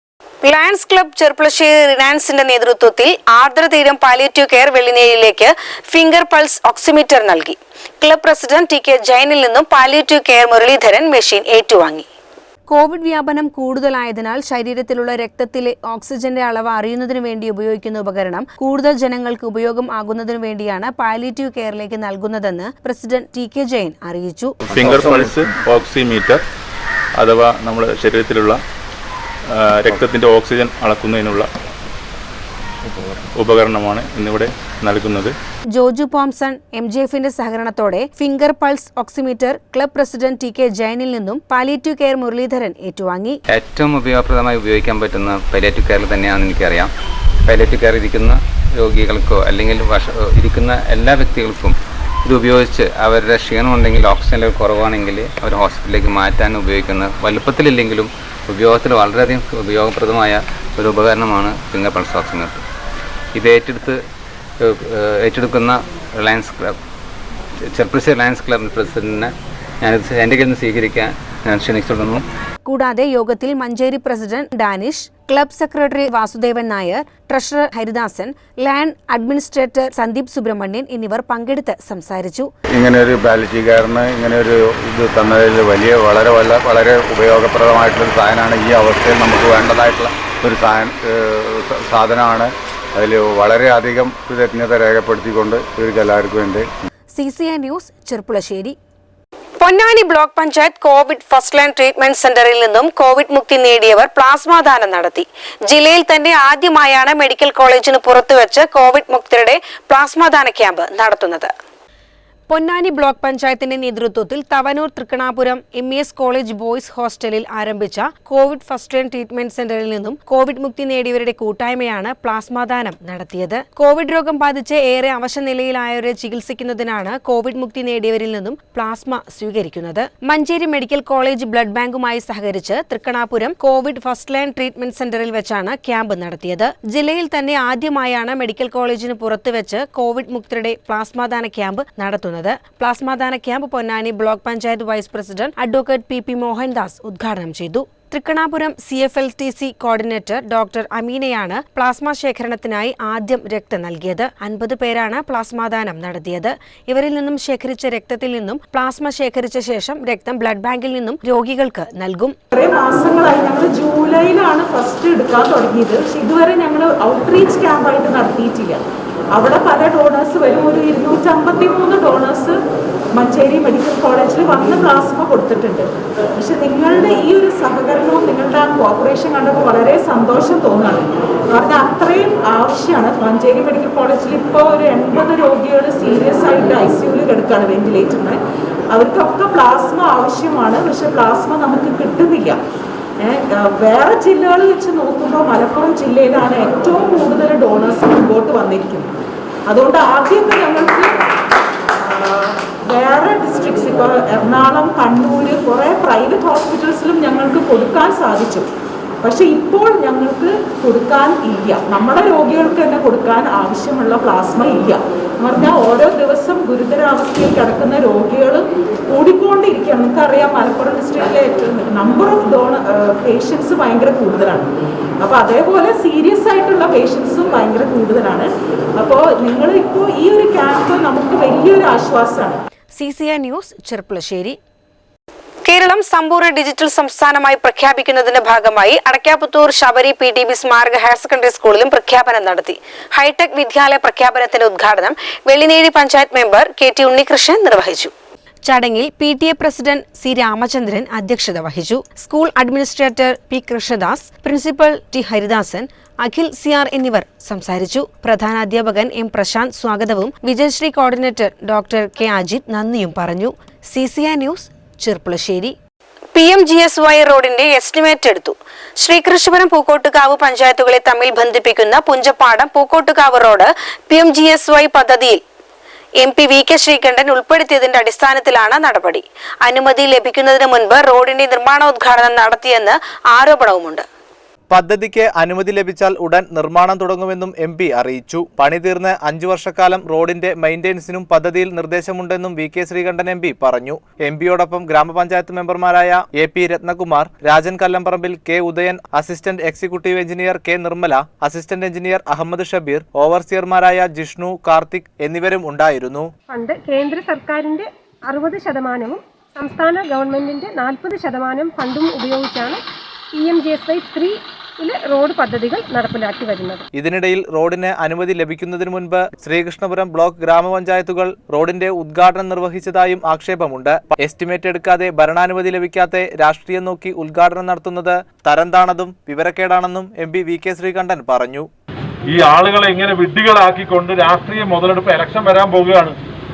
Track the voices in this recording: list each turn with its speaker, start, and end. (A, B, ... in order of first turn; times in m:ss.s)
0:00.4-0:12.1 A
0:12.7-0:24.6 A
0:24.7-0:26.4 B
0:27.2-0:28.6 B
0:29.6-0:31.5 B
0:33.0-0:35.3 B
0:35.7-0:43.4 A
0:43.5-0:46.9 C
0:47.4-1:02.6 C
1:03.4-1:04.0 C
1:04.6-1:06.8 C
1:07.7-1:12.2 C
1:12.6-1:22.5 A
1:22.7-1:36.7 D
1:37.1-1:38.8 A
1:39.6-1:51.5 A
1:52.5-2:42.4 A
2:42.5-2:52.6 E
2:53.1-3:08.4 E
3:08.9-3:12.6 E
3:13.2-3:19.1 E
3:19.7-3:21.1 E
3:22.0-3:28.7 E
3:29.2-3:44.7 E
3:45.2-3:52.6 E
3:52.9-3:54.6 A
3:55.6-4:08.1 A
4:08.6-4:25.7 A
4:26.3-4:35.4 A
4:36.2-4:44.0 A
4:44.7-5:06.3 F
5:06.5-5:12.8 G
5:13.4-5:16.8 G
5:16.9-5:31.7 F
5:32.3-5:36.1 H